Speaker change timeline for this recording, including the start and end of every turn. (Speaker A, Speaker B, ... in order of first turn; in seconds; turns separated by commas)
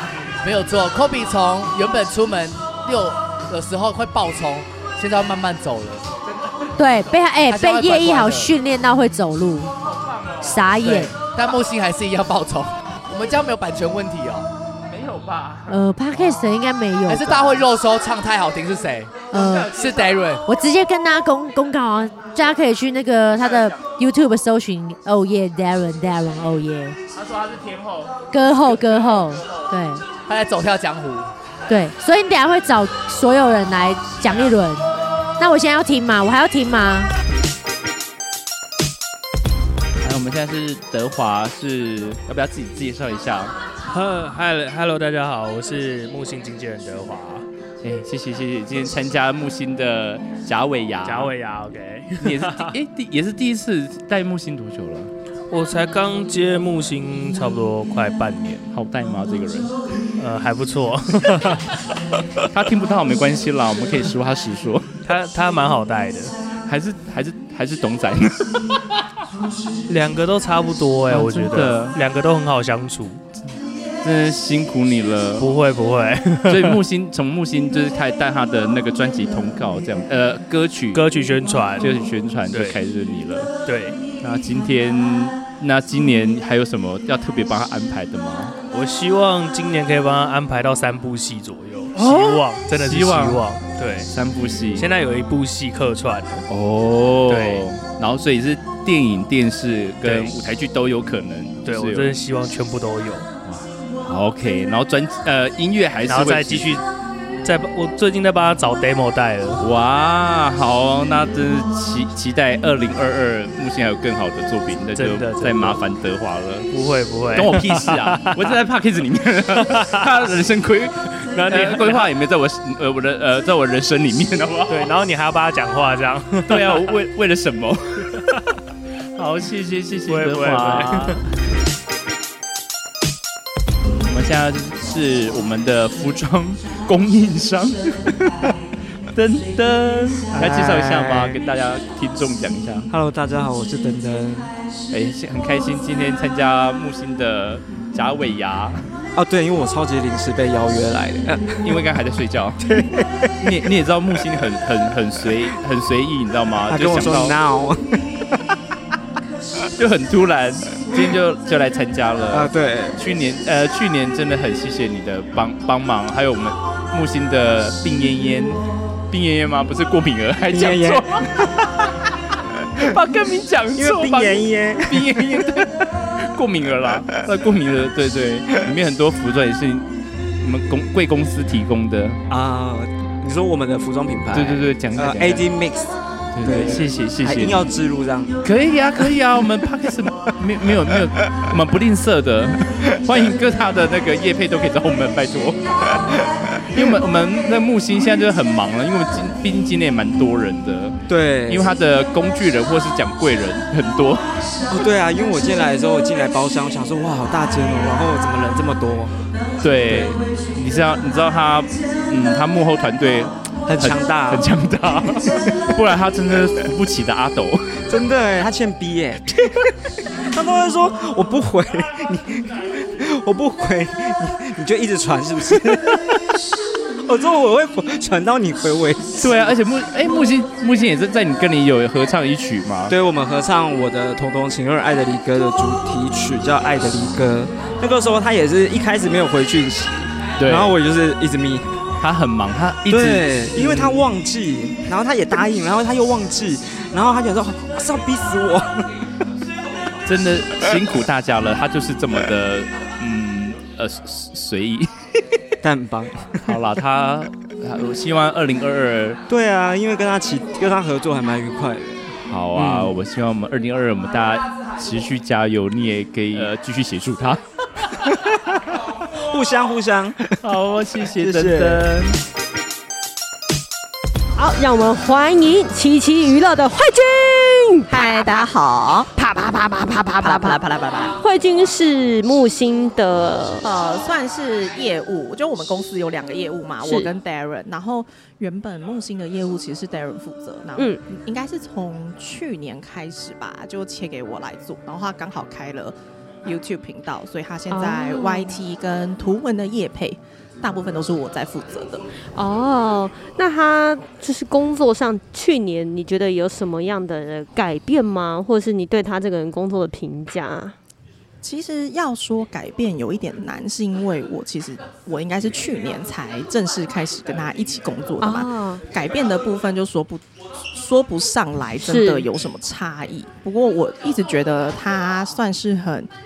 Speaker A: 0.4-6.0, Speaker B: 6.8-9.7, Speaker A: 7.5-8.5, Speaker C: 9.8-10.6, Speaker B: 10.4-11.1, Speaker A: 10.8-14.5, Speaker C: 14.9-15.8, Speaker B: 15.7-17.6, Speaker A: 17.1-20.4, Speaker B: 19.3-19.9, Speaker C: 19.4-20.1, Speaker B: 20.4-27.0, Speaker C: 27.2-28.1, Speaker B: 28.3-30.1, Speaker A: 30.2-31.3, Speaker B: 31.7-34.9, Speaker B: 35.4-37.1, Speaker C: 40.0-43.5, Speaker D: 43.9-47.5, Speaker C: 47.8-51.4, Speaker D: 51.0-52.8, Speaker C: 52.2-55.1, Speaker D: 55.5-58.6, Speaker C: 58.7-59.7, Speaker D: 60.2-61.6, Speaker C: 62.5-64.9, Speaker D: 65.0-66.3, Speaker C: 66.7-68.5, Speaker D: 69.9-73.3, Speaker C: 71.1-72.0, Speaker C: 74.0-75.5, Speaker D: 75.4-76.8, Speaker C: 76.5-81.0, Speaker D: 80.9-82.8, Speaker C: 81.8-83.5, Speaker D: 83.7-84.0, Speaker C: 84.2-88.5, Speaker D: 88.7-94.1, Speaker C: 91.9-93.5, Speaker C: 94.1-94.9, Speaker D: 94.7-96.4, Speaker C: 96.5-102.2, Speaker D: 97.3-97.7, Speaker D: 100.0-100.4, Speaker D: 101.6-103.3, Speaker C: 103.4-106.8, Speaker D: 106.0-106.8, Speaker D: 107.4-109.6, Speaker C: 109.6-116.7, Speaker D: 115.0-115.8, Speaker D: 116.7-118.6, Speaker C: 117.3-124.9, Speaker D: 119.6-120.0, Speaker D: 121.3-122.1, Speaker D: 124.7-127.0, Speaker C: 126.5-127.9, Speaker D: 129.2-129.5, Speaker C: 129.2-131.2, Speaker D: 130.1-131.2, Speaker C: 134.1-137.8, Speaker C: 139.1-142.9, Speaker E: 140.3-141.4, Speaker E: 142.9-144.5, Speaker C: 144.9-148.8, Speaker E: 149.2-151.6, Speaker C: 151.6-152.6, Speaker E: 152.6-153.3, Speaker C: 153.4-157.3, Speaker E: 156.7-158.0, Speaker C: 159.7-171.3, Speaker E: 162.3-163.0, Speaker E: 170.5-171.6, Speaker C: 172.8-175.7, Speaker E: 173.7-175.7, Speaker C: 176.3-179.9, Speaker C: 180.4-182.2, Speaker E: 182.3-185.9, Speaker C: 184.3-185.5, Speaker C: 186.3-187.7, Speaker E: 186.4-188.3, Speaker C: 188.4-195.6, Speaker C: 196.7-204.2, Speaker E: 201.1-201.7, Speaker E: 204.7-209.1, Speaker C: 209.6-217.8, Speaker E: 209.9-210.2, Speaker E: 213.7-214.5, Speaker E: 217.9-219.7, Speaker E: 220.3-226.1, Speaker E: 227.1-229.2, Speaker C: 229.2-232.9, Speaker E: 232.9-241.7, Speaker C: 240.4-240.7, Speaker C: 242.0-244.0, Speaker E: 242.9-248.8, Speaker C: 250.1-254.9, Speaker E: 255.6-256.6, Speaker C: 256.5-259.2, Speaker E: 259.3-262.9, Speaker C: 262.2-267.4, Speaker E: 269.2-270.4, Speaker C: 270.4-272.1, Speaker E: 271.1-271.8, Speaker F: 274.4-278.1, Speaker G: 277.9-279.1, Speaker F: 279.2-280.6, Speaker G: 280.2-281.1, Speaker F: 281.1-283.6, Speaker G: 283.6-302.0, Speaker F: 286.8-287.1, Speaker F: 290.8-291.0, Speaker F: 297.7-298.5, Speaker F: 302.4-310.7, Speaker G: 311.4-320.2, Speaker F: 318.2-318.8, Speaker G: 320.7-326.1, Speaker F: 321.8-322.2